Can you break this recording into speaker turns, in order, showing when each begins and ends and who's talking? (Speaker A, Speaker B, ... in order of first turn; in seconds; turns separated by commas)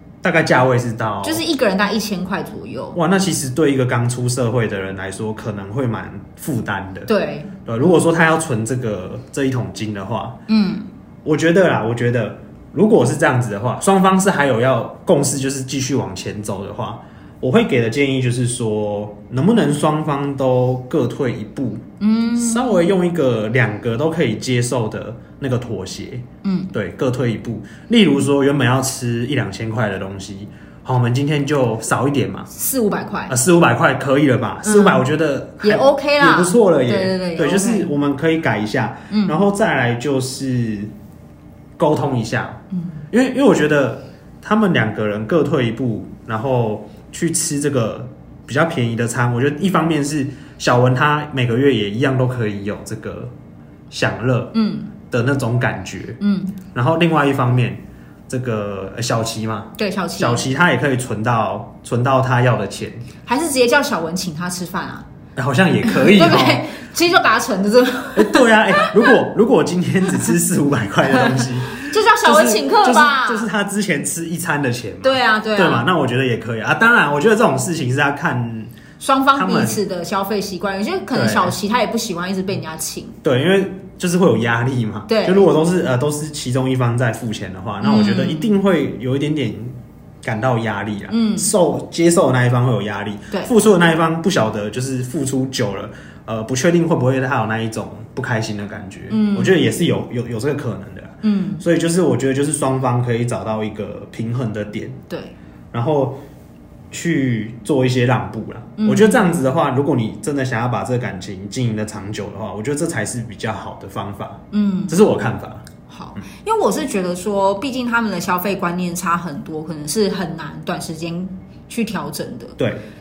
Speaker A: 0.2-1.4, Speaker B: 1.2-3.0, Speaker A: 2.9-7.1, Speaker B: 7.1-7.6, Speaker A: 7.7-10.4, Speaker B: 10.5-10.9, Speaker A: 11.2-21.8, Speaker B: 22.0-22.9, Speaker A: 22.3-32.5, Speaker B: 26.4-26.7, Speaker B: 32.5-33.4, Speaker A: 33.3-40.9, Speaker B: 34.6-35.1, Speaker B: 35.6-37.9, Speaker B: 39.1-39.4, Speaker A: 41.8-53.3, Speaker B: 42.7-43.0, Speaker A: 53.9-54.5, Speaker B: 54.5-54.9, Speaker A: 55.1-56.2, Speaker B: 56.2-56.6, Speaker A: 56.7-63.0, Speaker B: 59.8-60.5, Speaker B: 63.2-65.0, Speaker A: 65.3-66.7, Speaker B: 65.8-69.1, Speaker A: 68.1-78.7, Speaker B: 71.1-73.5, Speaker B: 75.0-75.9, Speaker B: 79.0-83.2, Speaker A: 79.3-79.8, Speaker A: 81.1-81.5, Speaker A: 83.2-105.0, Speaker B: 85.1-85.5, Speaker B: 87.8-88.5, Speaker B: 91.1-91.5, Speaker B: 99.1-99.6, Speaker B: 101.2-101.6, Speaker B: 105.1-105.3, Speaker A: 105.7-106.2, Speaker A: 106.9-115.6, Speaker B: 108.8-109.3, Speaker B: 114.5-115.0, Speaker B: 115.9-122.6, Speaker A: 122.6-122.8